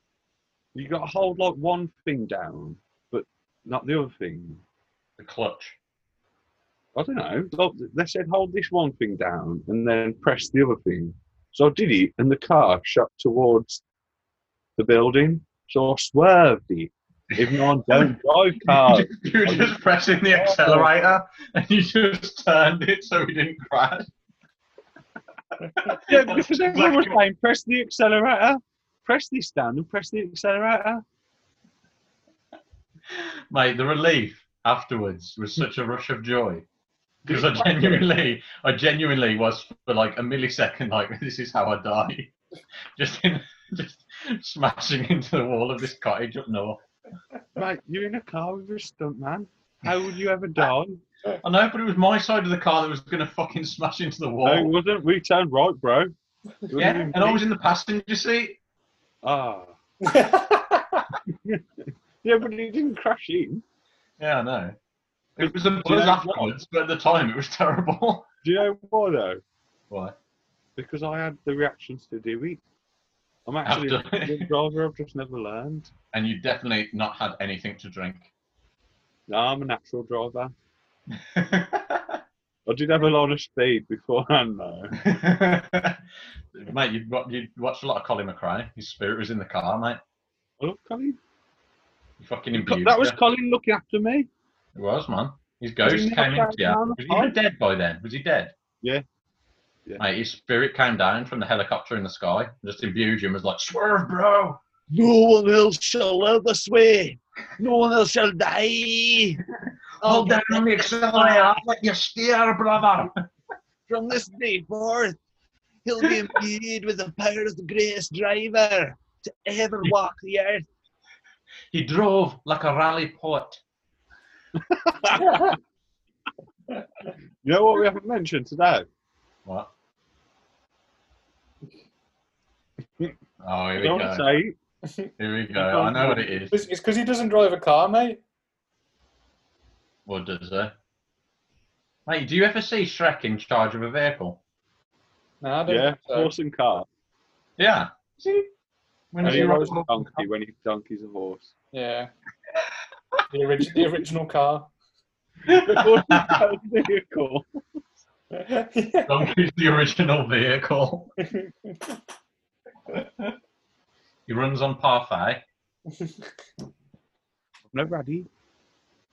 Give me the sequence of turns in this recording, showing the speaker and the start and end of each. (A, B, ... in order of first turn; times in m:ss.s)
0:00.8-0:04.6 A
0:05.2-0:05.8 B
0:07.0-0:13.8 A
0:14.8-0:20.9 A
0:17.3-0:18.1 B
0:18.6-0:24.1 B
0:25.6-0:27.2 B
0:26.1-0:31.0 A
0:33.1-0:36.6 B
0:37.3-0:42.3 B
0:37.3-0:38.1 A
0:43.0-0:46.8 B
0:47.6-0:51.0 A
0:51.4-0:54.7 B
0:54.4-0:56.1 A
0:56.7-0:57.4 A
0:56.7-0:58.6 B
0:59.2-0:59.8 A
1:00.0-1:01.1 C
1:01.3-1:03.6 A
1:04.2-1:04.8 B
1:05.4-1:08.3 B
1:05.4-1:06.6 A
1:08.4-1:09.4 A
1:09.9-1:10.2 B
1:10.8-1:12.6 A
1:13.5-1:15.9 A
1:13.7-1:14.5 B
1:16.1-1:18.3 B
1:19.3-1:20.5 A
1:21.2-1:22.2 B
1:22.7-1:25.0 A
1:25.0-1:26.0 B
1:26.6-1:30.0 B
1:30.6-1:31.2 A
1:32.2-1:33.2 B
1:32.5-1:34.3 A
1:34.8-1:38.5 B
1:35.8-1:37.4 A
1:40.0-1:44.6 B
1:44.9-1:49.4 A
1:50.0-1:51.5 A
1:50.0-1:53.1 B
1:53.9-1:55.1 A
1:55.9-2:00.6 A
2:01.7-2:03.6 B
2:04.6-2:05.4 A
2:07.4-2:08.9 A
2:13.4-2:14.3 B
2:13.8-2:14.6 A
2:15.2-2:16.5 B
2:15.6-2:16.3 A
2:16.5-2:18.2 C
2:20.1-2:20.7 B
2:22.1-2:24.4 B
2:25.4-2:26.3 C
2:25.7-2:26.9 A
2:27.6-2:28.5 B
2:29.1-2:30.3 B
2:29.2-2:31.5 A
2:29.2-2:29.5 C
2:31.7-2:32.1 C
2:33.3-2:34.7 C
2:35.4-2:37.5 A
2:35.5-2:36.4 B
2:38.3-2:39.2 C
2:39.1-2:41.1 B
2:41.2-2:42.0 C
2:42.9-2:43.3 B
2:44.3-2:45.4 B
2:45.9-2:46.3 C
2:47.7-2:48.3 A